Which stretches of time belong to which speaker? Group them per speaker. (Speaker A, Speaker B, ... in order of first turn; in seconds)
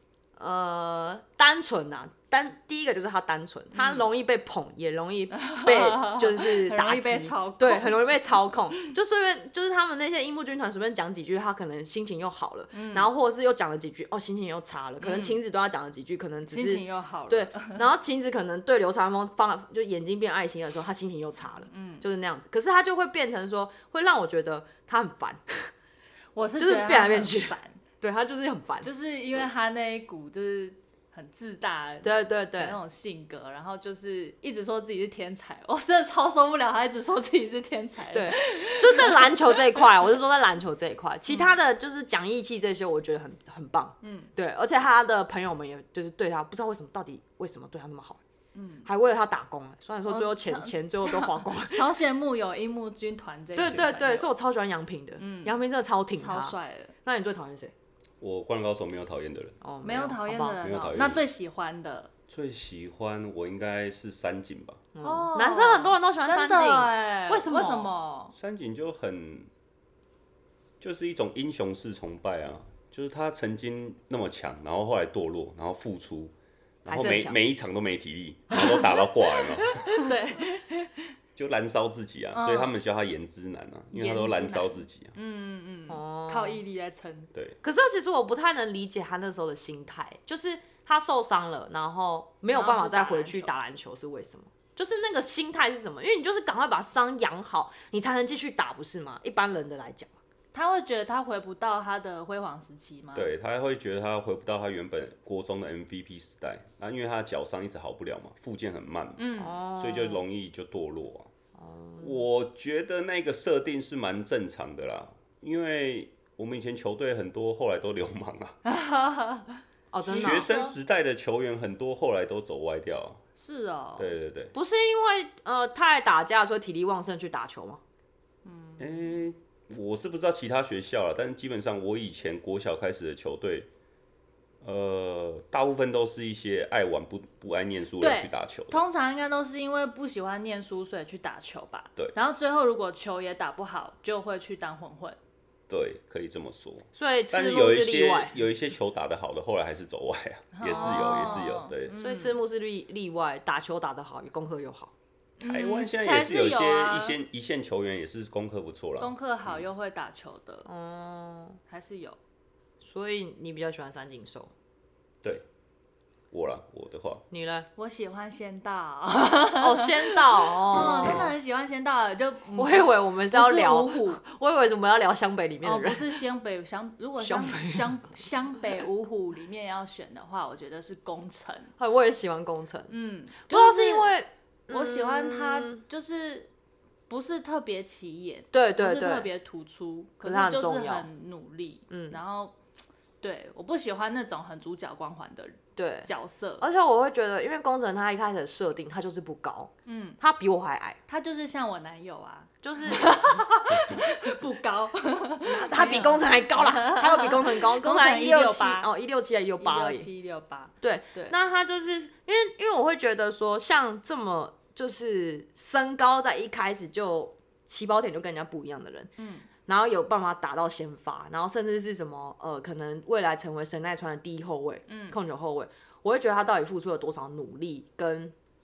Speaker A: 0.3-25.7, 26.6-28.9, 32.0-32.8, 38.1-48.2, 48.8-51.9, 53.5-57.7, 59.6-61.1, 64.9-67.9, 76.9-77.3, 85.9-86.6, 87.6-100.2, 109.4-110.2, 111.5-112.2, 119.9-120.5, 124.5-127.8, 146.9-148.4, 150.7-151.2, 152.0-154.9, 160.6-161.6, 162.8-164.5, 167.3-167.7, 169.6-171.3, 172.5-176.1, 177.2-178.0, 181.8-182.9, 183.4-185.8, 188.5-189.3, 190.2-191.1, 191.9-192.2, 195.8-196.1, 196.6-201.0, 202.6-203.4, 205.4-210.1, 210.8-219.1, 219.7-228.3
Speaker B: 3.8-4.1, 5.3-8.0, 12.7-13.1, 15.0-15.4, 16.5-17.8, 21.7-22.0, 26.3-27.8, 28.8-39.8, 41.3-41.5, 44.0-44.3, 48.5-48.9, 50.0-54.3, 55.2-55.6, 56.1-56.9, 59.8-62.1, 65.0-68.3, 78.5-81.1, 82.3-82.7, 83.9-87.3, 92.5-93.5, 100.5-103.3, 109.2-109.6, 118.6-120.8, 123.3-124.1, 128.4-129.2, 138.0-145.2, 150.5-152.4, 155.4-157.2, 159.0-160.7, 161.7-162.2, 167.8-174.2, 175.6-181.7, 182.9-184.1, 184.7-186.5, 187.1-192.6, 193.2-196.6, 199.8-200.2, 201.1-208.9, 209.6-211.3, 219.2-219.5, 224.9-225.2
Speaker C: 58.2-59.6, 60.6-61.2, 62.3-64.8, 68.3-69.5, 70.8-76.3, 76.8-80.0, 81.3-85.1, 103.1-111.3, 112.0-118.5, 120.1-123.2, 124.0-124.5, 128.8-133.7, 134.6-138.8, 145.7-151.9, 155.4-159.6, 166.3-167.2, 170.8-171.3